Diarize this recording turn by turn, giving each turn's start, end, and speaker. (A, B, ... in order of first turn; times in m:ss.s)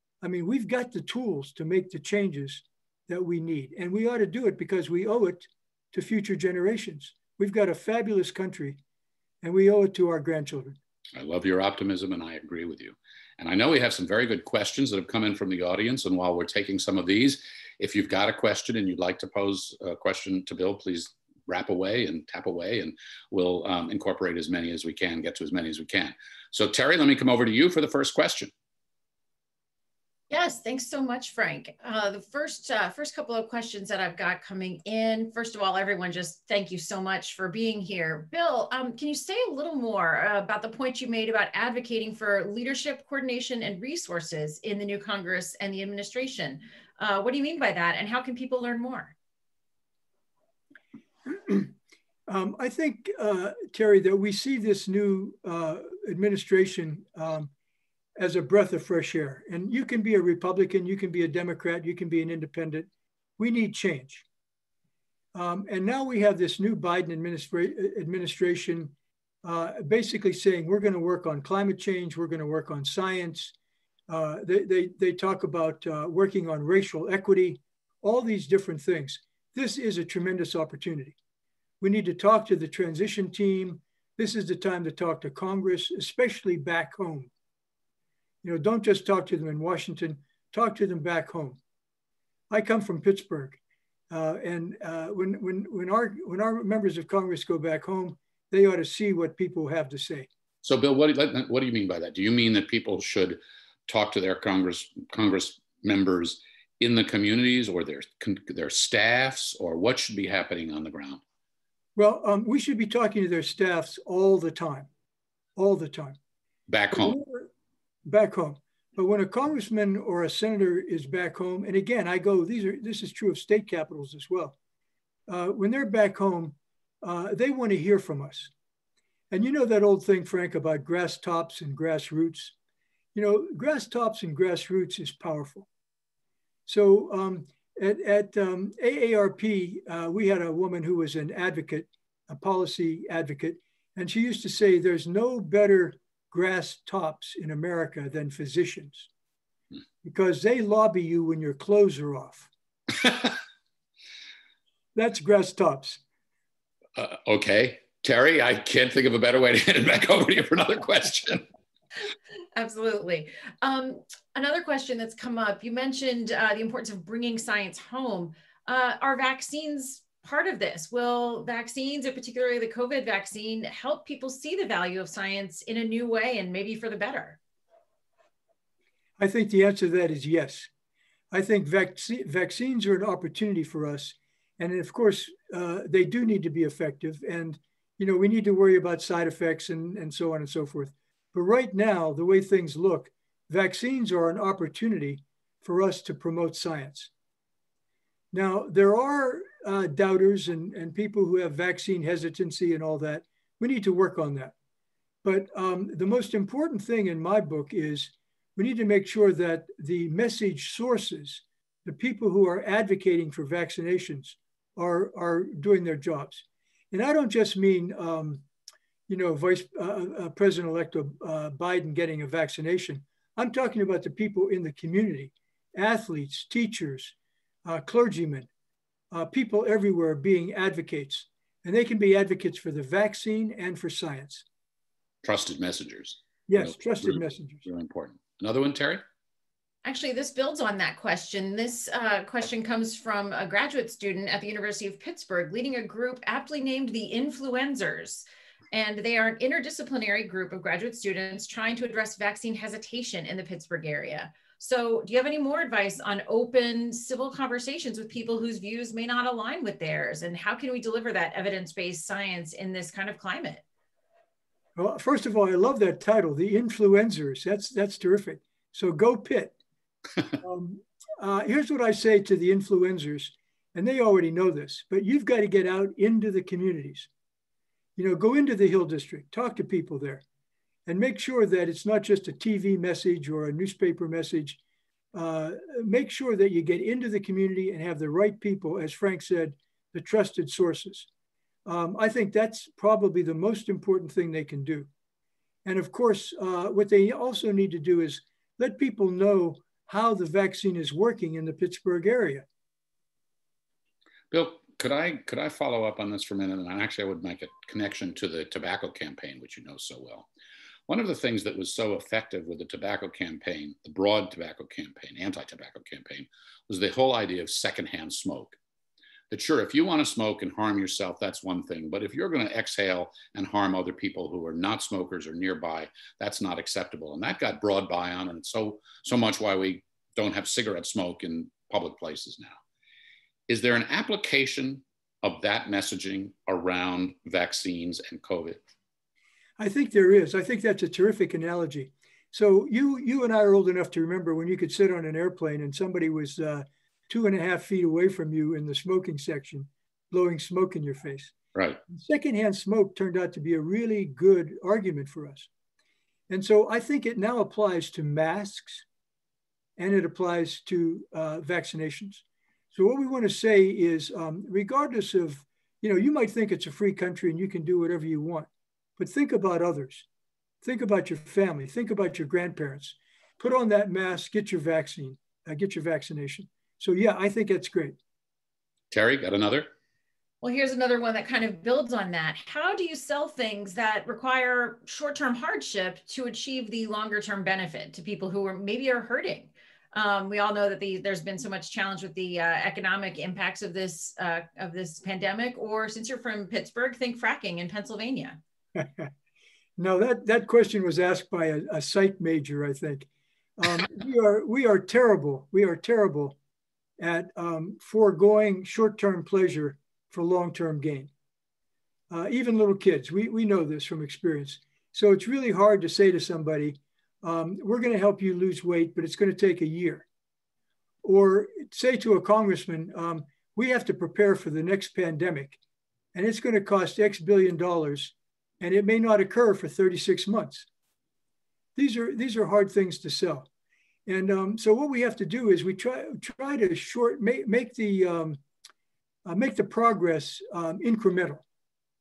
0:00.2-0:08.8 A
0:09.4-0:10.8 A
0:11.1-0:28.5 B
0:30.3-0:49.1 C
0:51.2-0:51.7 A
0:52.3-0:57.5 A
0:58.2-1:04.2 A
1:05.4-1:08.9 A
1:09.4-1:13.5 A
1:14.1-1:21.2 A
1:21.8-1:27.3 A
1:28.4-1:31.6 A
1:32.5-1:33.6 A
1:34.1-1:40.3 A
1:40.6-1:51.2 B
1:52.0-1:54.9 A
1:55.6-1:56.2 A
1:56.7-1:57.2 B
1:56.9-1:57.5 A
1:58.1-2:04.5 A
2:05.3-2:08.5 A
2:09.3-2:12.5 A
2:13.1-2:15.7 A
2:16.7-2:29.1 A
2:30.0-2:32.5 A
2:33.0-2:33.3 B
2:34.9-2:36.0 A
2:37.0-2:41.4 B
2:42.5-2:57.4 C
2:59.2-3:00.7 A
3:01.3-3:17.1 A
3:18.3-3:24.5 A
3:25.2-3:38.4 A
3:39.1-3:48.5 A
3:49.1-3:54.4 A
3:55.2-3:59.0 B
3:56.5-3:57.6 A
3:59.8-4:23.6 C
4:24.8-4:29.5 A
4:30.3-4:37.1 A
4:38.0-4:40.2 A
4:40.9-4:44.6 A
4:45.1-4:51.1 A
4:51.6-4:54.9 A
4:55.6-5:02.5 A
5:04.3-5:10.3 B
5:10.9-5:18.6 B
5:19.3-5:32.6 B
5:33.5-5:38.7 B
5:39.6-5:51.3 A
5:51.5-5:51.8 B
5:51.9-5:55.5 A
5:56.3-5:58.8 A
5:59.8-6:10.1 A
6:10.6-6:18.0 A
6:18.9-6:19.7 B
6:20.4-6:38.4 C
6:38.8-6:39.1 A
6:39.8-6:46.4 A
6:47.0-6:51.1 A
6:52.1-7:00.1 A
7:01.0-7:05.6 A
7:06.1-7:10.7 A
7:11.8-7:13.5 A
7:14.1-7:18.4 A
7:19.2-7:21.4 A